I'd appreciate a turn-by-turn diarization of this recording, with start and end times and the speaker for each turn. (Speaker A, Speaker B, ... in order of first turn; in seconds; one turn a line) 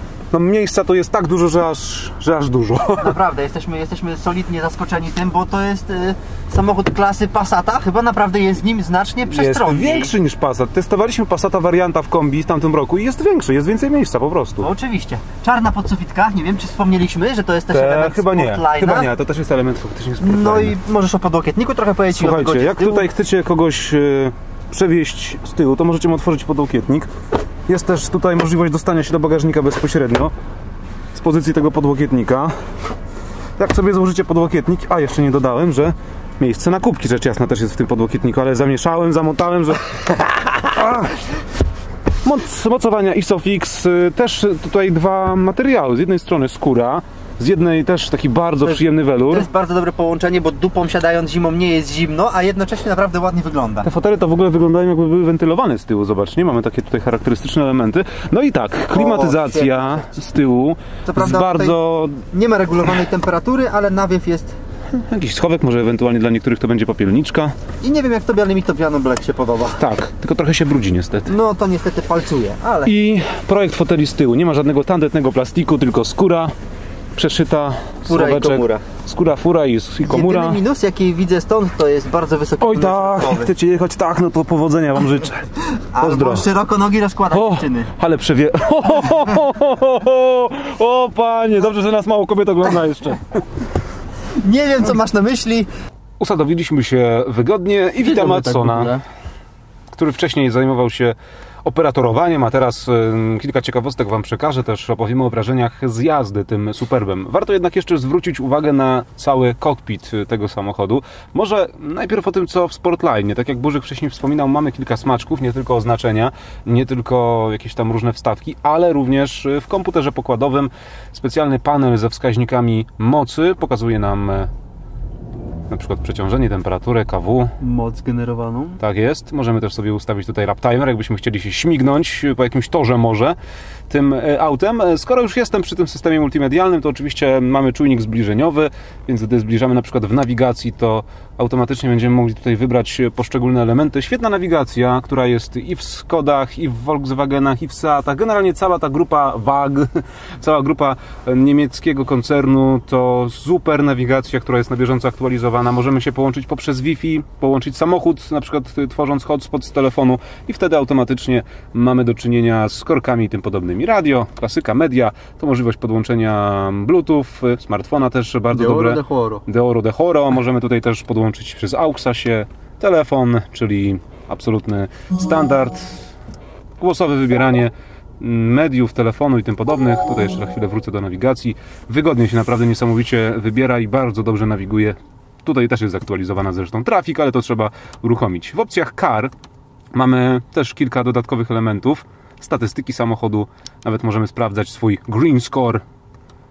Speaker A: 0.3-3.1
Speaker B: 3.0-10.1
Speaker A: 9.3-14.7
Speaker B: 14.6-19.1
Speaker A: 17.7-20.7
Speaker B: 20.2-23.1
Speaker A: 22.1-27.1
Speaker A: 27.7-30.3
Speaker A: 31.1-32.5
Speaker A: 33.6-41.2
Speaker A: 42.2-49.5
Speaker B: 48.6-53.9
Speaker A: 53.8-62.2
Speaker B: 58.9-60.1
Speaker B: 61.0-61.8
Speaker B: 62.3-64.5
Speaker A: 64.9-67.5
Speaker B: 67.8-69.8
Speaker A: 69.8-71.3
Speaker B: 71.3-72.9
Speaker A: 72.8-76.5
Speaker A: 77.2-80.6
Speaker B: 78.1-78.8
Speaker B: 80.0-83.5
Speaker A: 82.6-85.5
Speaker B: 85.8-87.9
Speaker A: 86.0-86.5
Speaker A: 87.3-93.4
Speaker B: 94.4-95.7
Speaker A: 96.2-99.0
Speaker B: 98.0-99.0
Speaker A: 99.9-124.5
Speaker A: 125.7-127.5
Speaker B: 127.6-128.8
Speaker A: 128.8-133.4
Speaker A: 133.9-176.0
Speaker B: 168.5-169.4
Speaker A: 176.8-189.3
Speaker A: 189.9-195.8